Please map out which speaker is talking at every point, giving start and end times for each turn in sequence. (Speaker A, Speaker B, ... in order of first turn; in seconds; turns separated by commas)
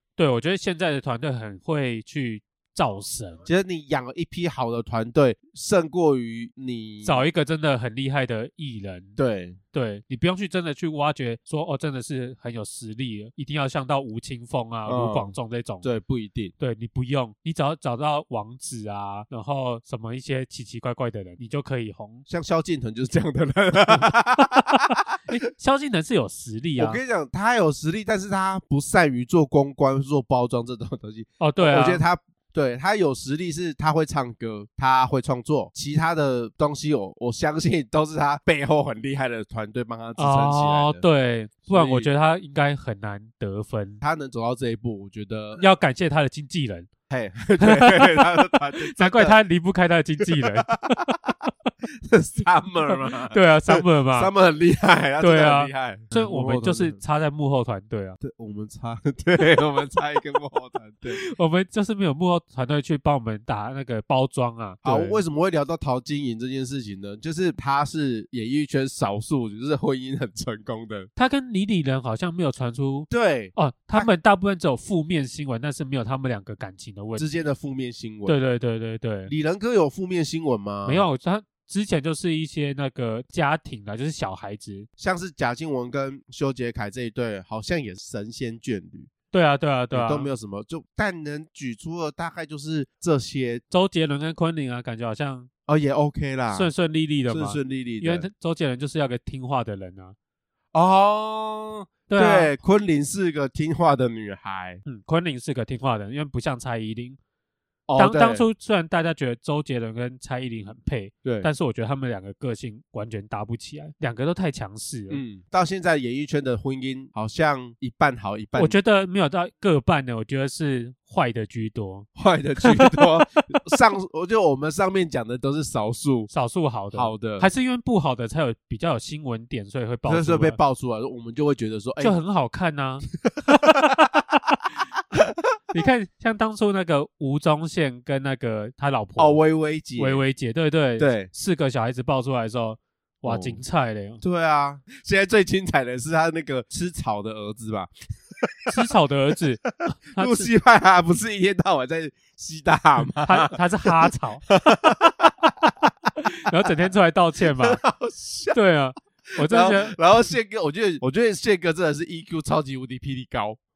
Speaker A: 0.2-3.4, Speaker B: 3.4-7.2, Speaker A: 7.0-9.2, Speaker B: 9.2-9.6, Speaker A: 9.7-15.9, Speaker B: 14.9-16.5, Speaker A: 16.6-22.2, Speaker B: 22.3-25.2, Speaker A: 25.3-27.0, Speaker B: 26.8-41.0, Speaker A: 31.4-32.0, Speaker A: 40.2-44.0, Speaker B: 41.7-42.1, Speaker B: 44.0-45.6, Speaker A: 45.6-46.9, Speaker B: 47.1-49.4, Speaker A: 47.6-51.7, Speaker B: 50.2-51.1, Speaker B: 52.0-57.0, Speaker A: 53.3-54.3, Speaker A: 55.2-58.2, Speaker B: 58.2-61.2, Speaker A: 61.1-65.2, Speaker B: 64.8-71.1, Speaker A: 71.2-77.2, Speaker B: 73.1-74.1, Speaker B: 77.2-78.3, Speaker A: 78.3-79.3, Speaker B: 79.3-81.1, Speaker A: 80.8-84.9, Speaker B: 85.0-89.1, Speaker A: 89.3-90.3, Speaker B: 89.9-93.6, Speaker A: 93.7-95.5, Speaker B: 95.7-96.7, Speaker A: 96.5-100.2, Speaker B: 97.3-98.3, Speaker B: 100.7-104.8, Speaker A: 102.1-102.5, Speaker A: 104.8-107.2, Speaker B: 107.9-108.5, Speaker A: 108.0-115.2, Speaker B: 111.2-111.5, Speaker B: 115.1-118.8, Speaker A: 118.6-122.1, Speaker B: 122.2-126.3, Speaker A: 122.6-123.6, Speaker A: 126.3-130.6, Speaker B: 126.9-127.5, Speaker B: 130.0-132.2, Speaker A: 132.0-133.1, Speaker B: 133.2-134.0, Speaker A: 135.7-139.4, Speaker B: 139.2-140.2, Speaker A: 140.0-144.2, Speaker B: 141.0-141.3, Speaker B: 143.2-143.6, Speaker B: 144.2-147.9, Speaker B: 148.4-148.7, Speaker A: 148.7-150.5, Speaker B: 149.7-155.5, Speaker A: 153.2-154.4, Speaker A: 156.4-157.8, Speaker B: 157.5-158.6, Speaker A: 158.5-160.0, Speaker B: 159.3-163.6